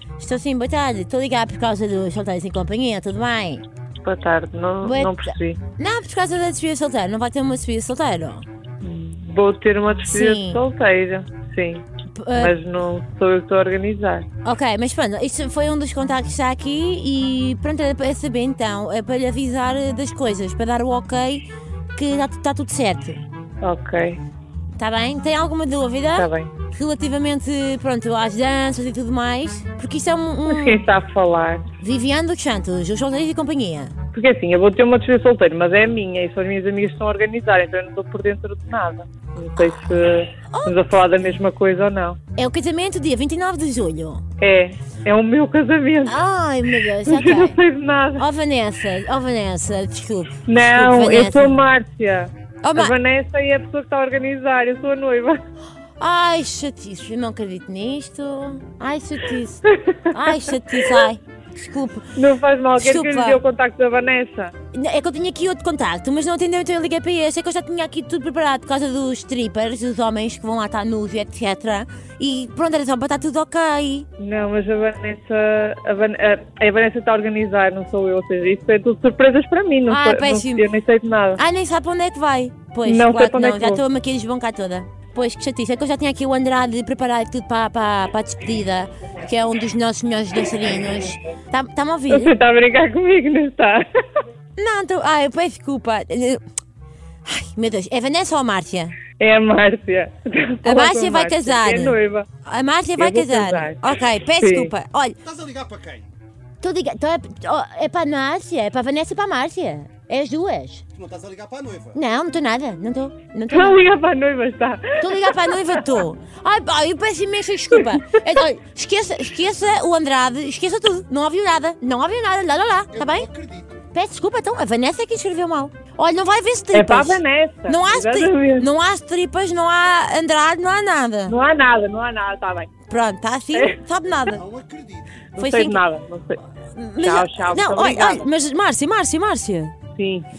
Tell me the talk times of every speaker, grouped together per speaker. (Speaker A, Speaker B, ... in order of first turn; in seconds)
Speaker A: 0.2-3.6, 4.8-8.4, 10.1-10.6, 12.1-12.5, 14.4-21.4, 21.9-23.2, 24.8-30.8, 31.8-33.9, 40.5-40.8, 42.4-44.2, 46.0-47.6, 48.2-51.6, 52.6-52.9, 56.0-62.0, 62.8-63.4, 64.7-74.1, 79.9-80.6, 81.3-92.3, 94.6-96.4, 97.2-99.0, 100.6-105.2, 106.6-110.8, 111.9-113.8, 115.0-123.3, 123.9-131.3, 132.8-134.4, 135.4-135.8, 136.6-139.8
Speaker B: 4.0-5.6, 8.8-14.3, 23.6-24.2, 26.1-26.5, 30.5-31.6, 34.1-42.2, 44.4-46.2, 47.0-48.2, 50.5-55.4, 59.6-61.0, 62.1-64.5, 74.2-81.4, 82.8-83.8, 92.1-94.2, 99.1-102.3, 103.0-104.7, 113.5-115.9, 117.7-118.0, 126.7-128.7, 131.3-132.7, 133.5-133.8, 135.3-136.4, 137.0-138.3, 139.9-140.3
Speaker C: 105.2-106.1, 110.9-112.0, 122.9-123.8, 134.3-135.2